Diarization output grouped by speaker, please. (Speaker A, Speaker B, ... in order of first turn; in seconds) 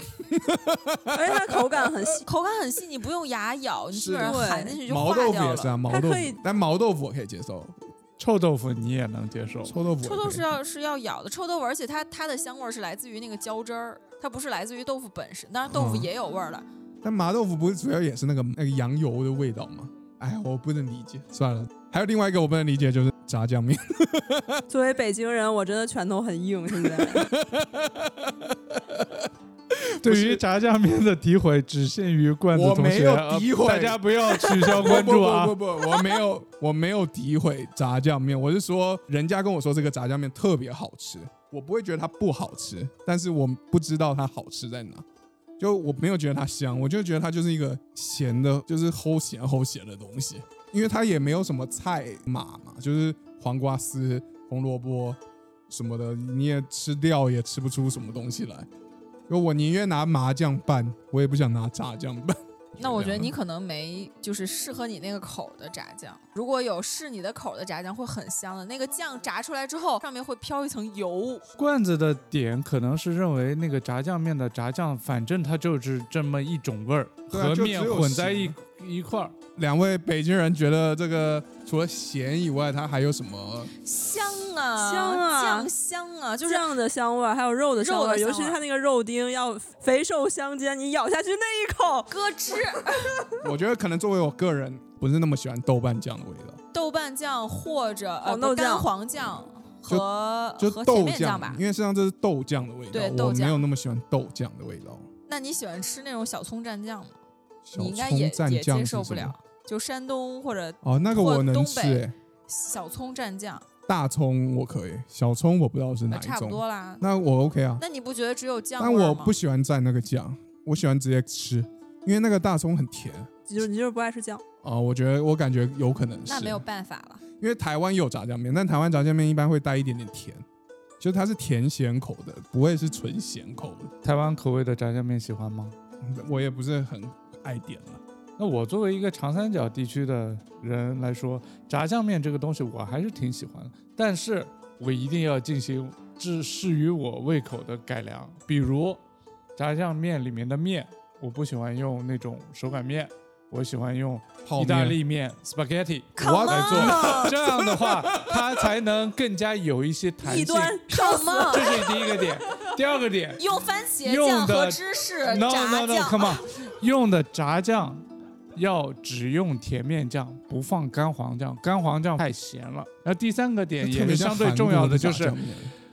Speaker A: 0.3-1.6, 3.9-7.8, 9.7-10.5, 15.7-16.1, 17.0-24.6, 26.7-29.3, 29.8-30.4, 32.5-45.0, 45.6-58.7, 59.3-63.4, 77.3-78.5, 79.6-83.7, 93.4-96.6, 100.6-105.1, 107.7-109.3, 110.8-112.1, 113.9-117.8, 118.8-123.3, 124.6-126.6, 127.4-130.4, 131.0-133.9, 136.0-138.0, 154.4-155.0, 156.2-158.7, 173.8-175.7
Speaker B: 1.1-2.2, 4.2-4.8, 5.8-6.4, 24.7-27.3, 84.8-85.7, 86.5-92.2, 98.2-98.9, 123.5-124.4, 160.2-161.9
Speaker C: 2.2-5.7, 10.0-16.7, 62.8-71.5, 83.8-86.7, 87.8-88.6, 92.1-93.3, 96.7-101.6, 102.9-103.6, 105.3-107.2, 107.8-113.7, 116.1-117.0, 117.8-119.3, 126.3-127.2, 156.2-157.4, 160.9-161.9, 163.4-166.4
Speaker D: 8.2-9.8, 30.0-35.6, 71.6-79.3, 134.0-135.7, 138.4-149.0, 149.6-160.8, 161.5-163.5, 164.0-168.0, 168.6-175.4